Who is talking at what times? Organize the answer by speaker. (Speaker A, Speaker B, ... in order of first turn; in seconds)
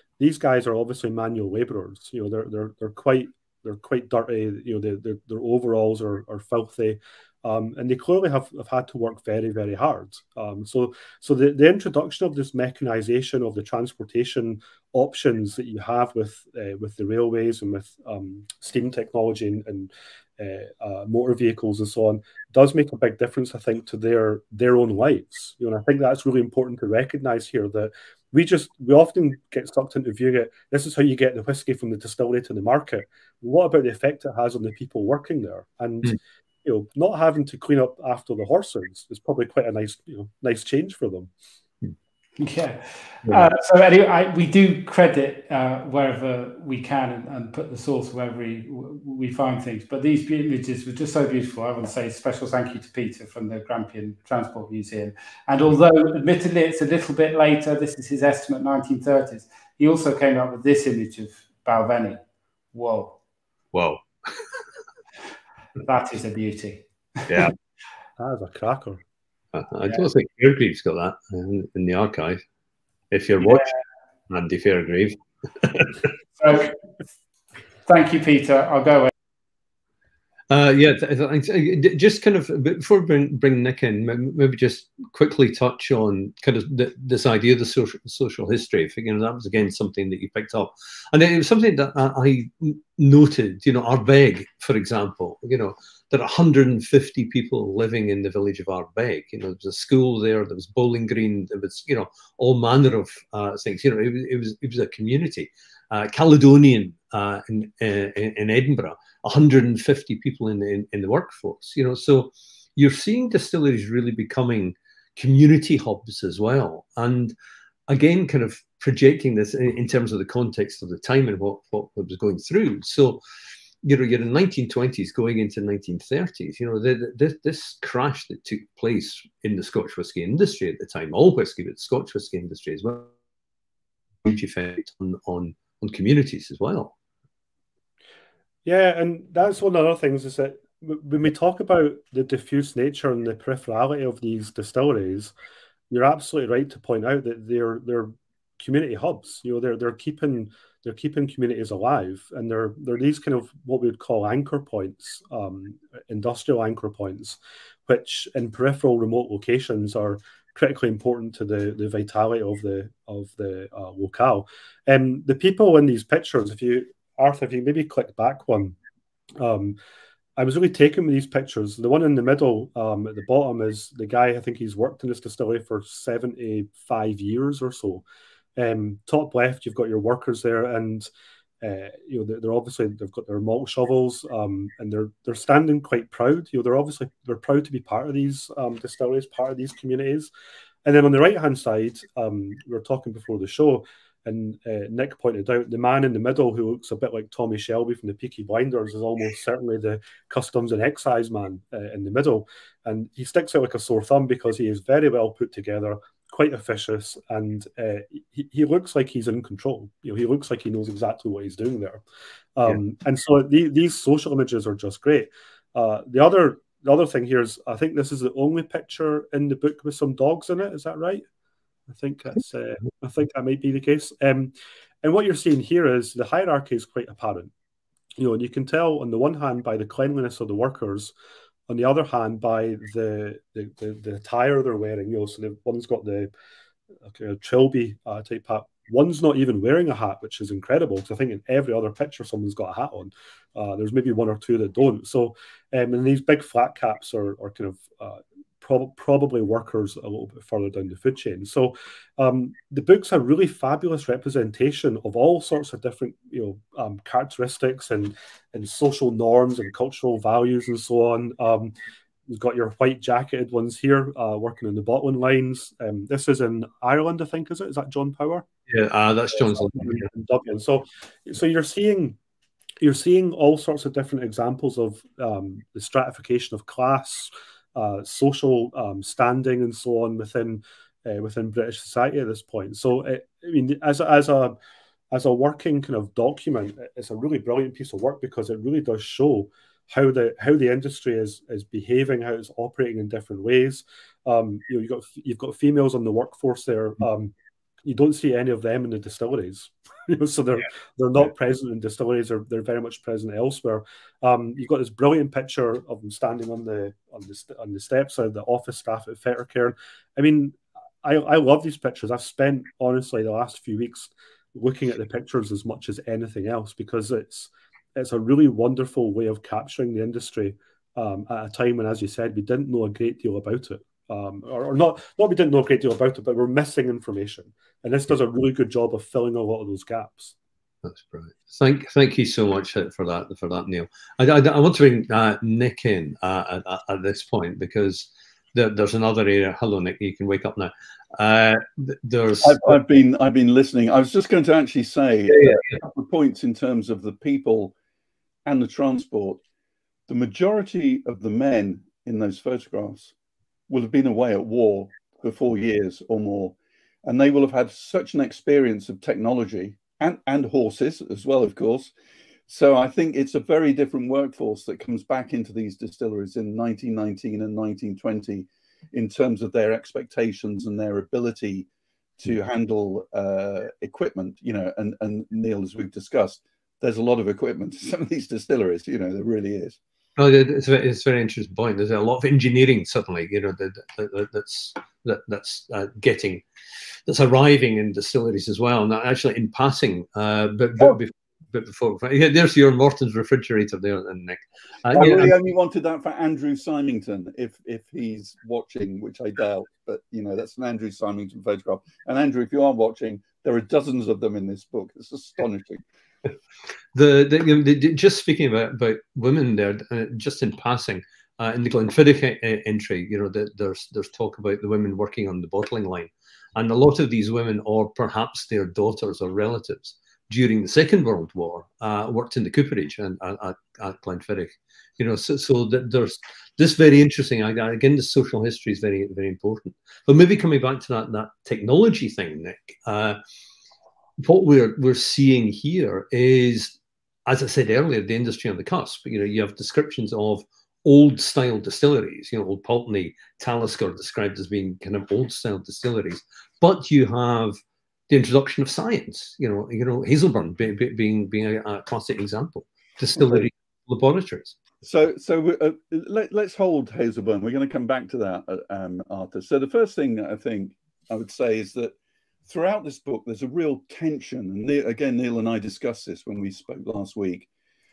Speaker A: 0.2-41.3, 68.2-69.0, 138.7-145.3, 145.9-168.8, 169.4-169.8, 170.4-178.0, 178.6-181.1, 181.6-190.3, 190.8-212.0, 212.6-221.2, 221.9-227.5, 228.2-231.1, 231.7-236.3, 237.1-261.8, 262.3-268.4, 269.3-272.2, 272.8-284.6, 285.1-297.3, 297.8-330.3
Speaker B: 42.4-62.2, 62.7-63.2, 65.8-67.5, 73.4-73.7, 76.4-76.8, 77.9-79.1
Speaker C: 63.7-64.6, 67.3-67.5, 69.5-72.4, 73.1-73.7, 74.3-76.0, 80.5-117.3, 117.9-123.2, 123.8-133.1, 134.2-136.9, 268.7-270.1, 330.8-342.8, 345.3-345.8, 380.2-386.4, 387.1-395.4, 406.9-433.2, 434.2-454.6
Speaker D: 342.4-347.7, 348.5-349.4, 350.1-353.1, 353.7-361.9, 362.5-371.7, 372.2-379.8, 394.9-405.8, 453.2-453.5, 454.8-467.5